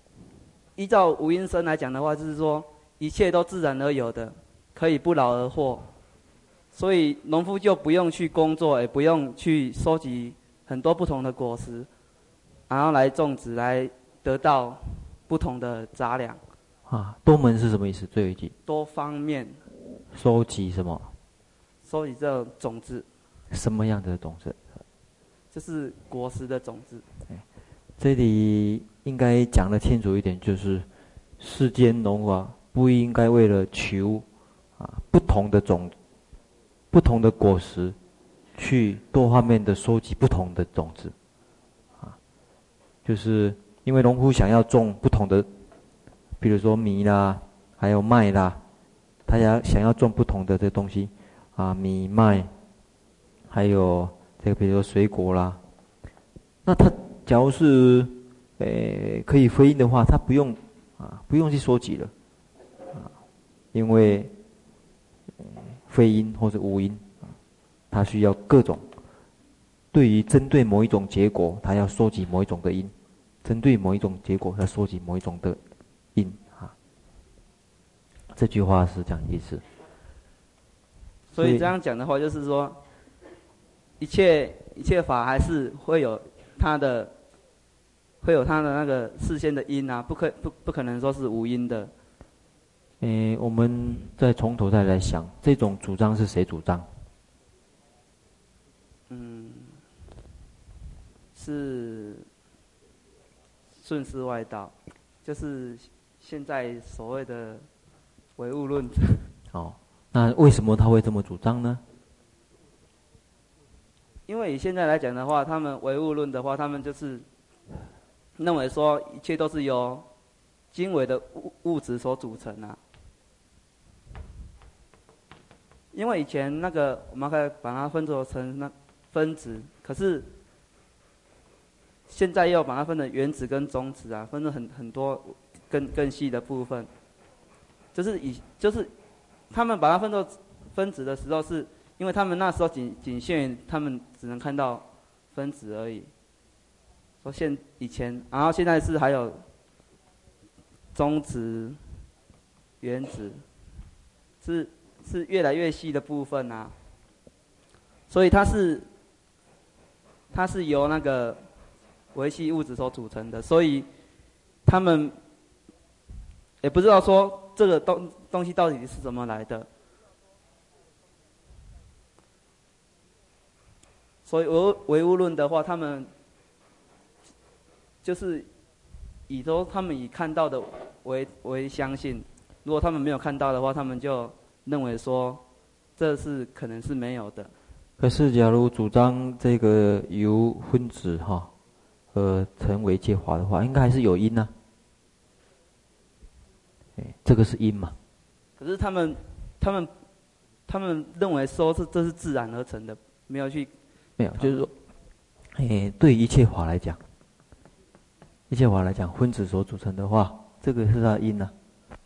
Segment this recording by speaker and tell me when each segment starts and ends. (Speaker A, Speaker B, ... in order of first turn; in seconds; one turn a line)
Speaker A: 0.8-5.9
Speaker A: 6.7-11.9
Speaker A: 12.7-16.4
Speaker B: 16.9-18.5
Speaker A: 18.7-19.6
Speaker B: 20.1-21.1
Speaker A: 21.9-23.1
Speaker B: 23.5-24.6
Speaker A: 25.5-27.1
Speaker B: 28.0-30.9
Speaker B: 31.4-34.2
Speaker B: 34.8-36.0
Speaker B: 36.9-38.0
Speaker B: 38.5-41.1
Speaker B: 43.0-45.5
Speaker B: 46.4-48.6
Speaker B: 49.3-52.5
Speaker B: 53.5-55.6
Speaker B: 56.6-62.1
Speaker B: 63.7-64.3
Speaker B: 65.4-67.1
Speaker B: 67.9-68.8
Speaker B: 69.9-72.9
Speaker B: 73.4-75.6
Speaker B: 76.2-76.7
Speaker B: 78.3-79.6
Speaker A: 81.3-82.8
Speaker B: 81.4-81.7
Speaker A: 84.0-87.1
Speaker A: 88.2-91.9
Speaker B: 93.0-96.9
Speaker A: 99.1-99.8
Speaker A: 101.3-102.3
Speaker A: 103.8-107.7
Speaker A: 108.4-109.3
Speaker B: 109.5-111.8
Speaker A: 114.3-117.2
Speaker A: 118.4-120.1
Speaker A: 120.7-122.8
Speaker A: 125.9-130.3
Speaker A: 132.1-136.9
Speaker A: 137.9-138.9
Speaker A: 139.5-146.1
Speaker A: 147.2-149.4
Speaker A: 150.9-151.8
Speaker A: 152.8-153.4
Speaker A: 154.4-156.8
Speaker A: 158.1-158.9
Speaker A: 160.3-161.5
Speaker A: 162.1-163.9
Speaker A: 164.7-165.2
Speaker A: 166.6-169.7
Speaker A: 174.2-176.1
Speaker A: 178.0-178.5
Speaker A: 179.3-185.4
Speaker A: 186.0-187.5
Speaker B: 188.0-191.5
Speaker B: 192.1-194.5
Speaker B: 197.0-198.0
Speaker A: 198.6-199.9
Speaker A: 200.7-203.7
Speaker B: 204.2-204.7
Speaker A: 204.4-204.7
Speaker B: 205.5-207.0
Speaker B: 208.5-211.5